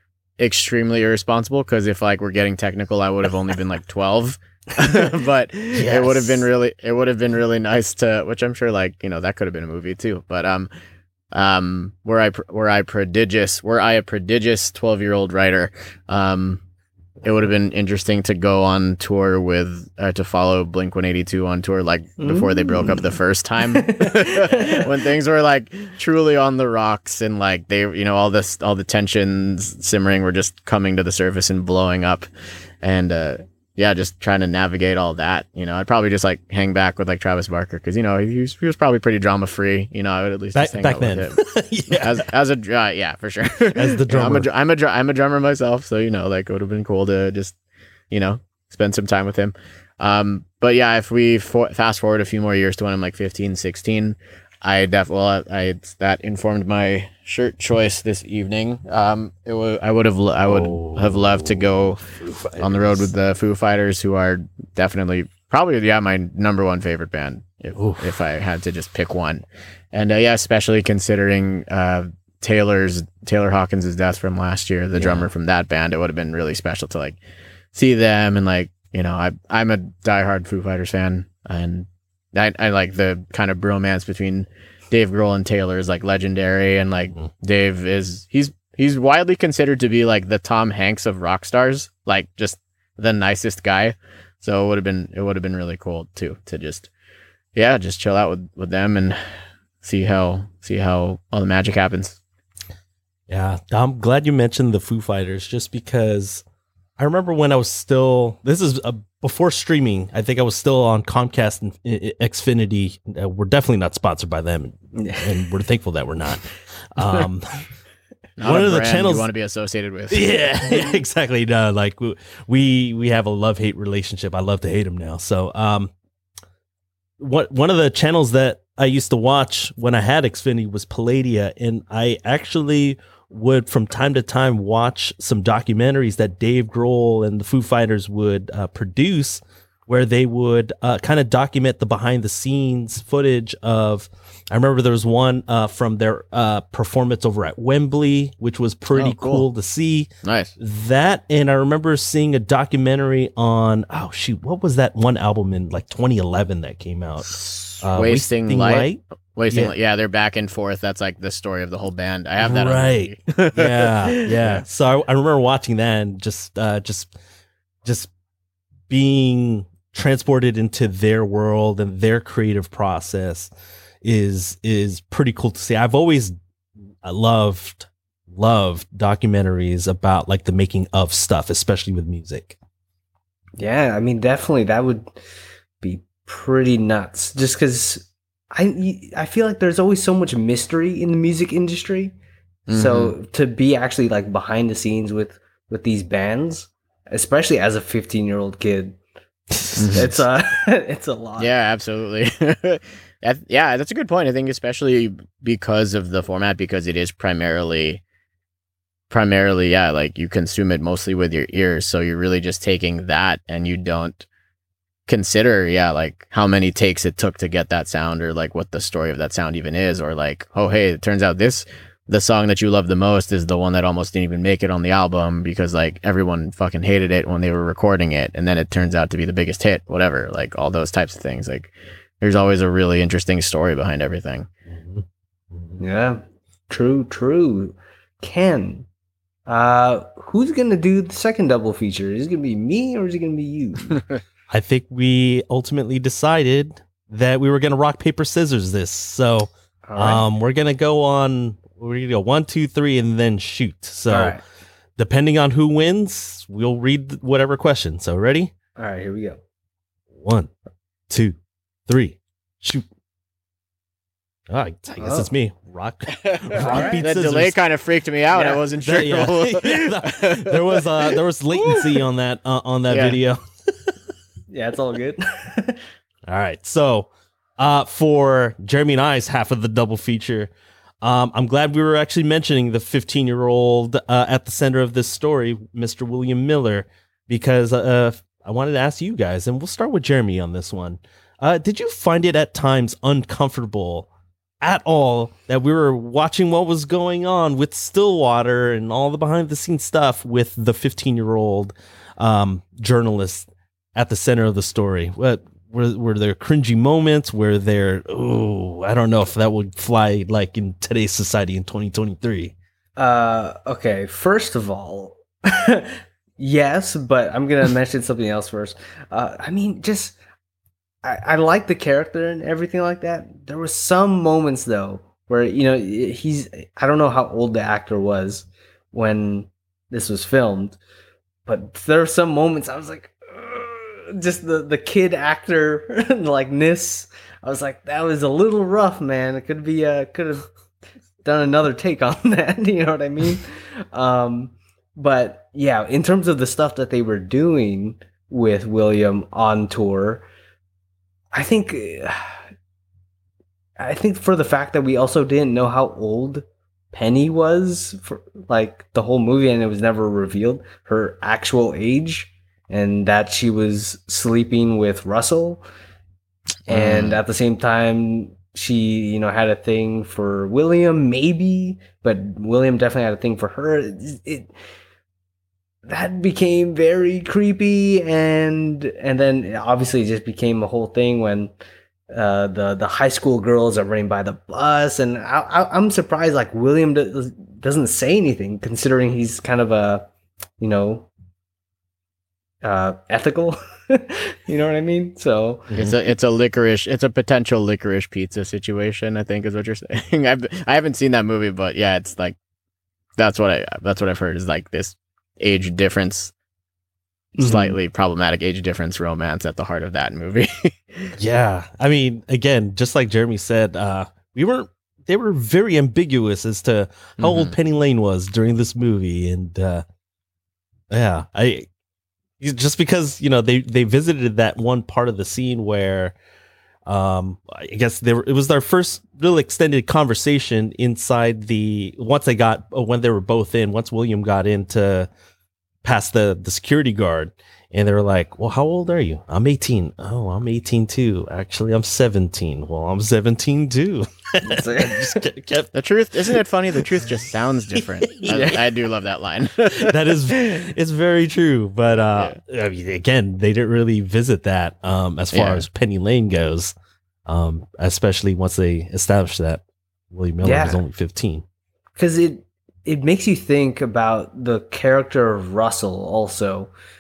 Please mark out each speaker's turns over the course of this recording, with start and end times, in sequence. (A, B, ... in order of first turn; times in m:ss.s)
0:00.4-0:10.7 A
0:05.7-0:06.4 B
0:11.3-0:16.6 A
0:17.2-0:32.3 A
0:22.2-0:23.1 C
0:23.7-0:24.9 C
0:32.8-0:41.4 A
0:40.6-0:42.3 B
0:41.9-0:47.6 A
0:43.8-0:44.5 B
0:48.1-1:02.0 A
1:00.4-1:03.1 B
1:02.6-1:17.2 A
1:07.8-1:08.2 B
1:15.0-1:15.3 C
1:17.7-1:36.9 A
1:37.6-1:39.2 A
1:39.8-1:42.2 A
1:43.3-1:46.4 B
1:47.0-1:57.7 B
1:55.0-1:55.4 C
1:58.4-2:00.4 A
1:58.4-1:59.3 B
2:00.1-2:05.9 B
2:07.2-2:39.7 B
2:28.9-2:29.4 A
2:30.2-2:30.5 A
2:37.3-2:44.6 A
2:42.4-2:47.2 B
2:47.8-2:48.1 B
2:48.9-2:53.5 B
2:54.0-2:56.3 B
2:57.0-3:02.6 B
3:03.6-3:05.2 C
3:05.8-3:12.2 C
3:12.7-3:13.1 A
3:12.7-3:19.0 C
3:19.5-3:20.2 B
3:19.8-3:20.1 A
3:19.9-3:21.5 C
3:21.4-3:28.0 A
3:29.1-3:34.3 A
3:35.1-3:54.5 A
3:54.7-3:55.8 B
3:55.8-3:58.9 C
3:59.5-4:04.0 C
4:04.5-4:14.4 B
4:09.9-4:10.2 C
4:14.1-4:14.4 C
4:15.0-4:18.5 B
4:18.8-4:19.4 C
4:20.1-4:20.5 B
4:21.1-4:22.9 B
4:24.5-4:27.6 B
4:25.0-4:25.3 C
4:26.2-4:31.0 A
4:26.6-4:27.0 C
4:28.3-4:28.6 C
4:28.8-4:34.0 B
4:32.9-4:33.2 A
4:34.5-4:35.8 C
4:36.3-4:40.5 B
4:41.0-4:54.1 B
4:54.6-5:12.6 B
5:13.0-5:20.2 C
5:21.0-5:30.8 C
5:31.5-5:40.5 C
5:41.2-5:50.3 C
5:51.3-5:52.4 C
5:53.8-6:05.6 C
6:06.7-6:14.5 C
6:06.7-6:07.2 A
6:15.9-6:21.5 C
6:22.1-6:30.1 C
6:30.6-6:31.1 C
6:32.6-6:35.7 C
6:35.8-6:42.4 A
6:43.2-6:46.3 A
6:47.4-6:47.8 C
6:47.4-6:51.2 A
6:51.2-6:59.8 B
6:57.2-6:57.5 A
7:00.9-7:01.7 B
7:02.4-7:06.2 B
7:06.9-7:15.1 B
7:15.8-7:25.7 B
7:24.4-7:25.2 C
7:25.7-7:30.7 A
7:26.3-7:26.9 B
7:27.7-7:28.6 B
7:28.2-7:28.6 C
7:29.7-7:36.8 B
7:32.0-7:32.4 A
7:35.3-7:35.6 A
7:37.3-7:41.4 B
7:40.4-7:40.8 C
7:42.0-7:46.7 C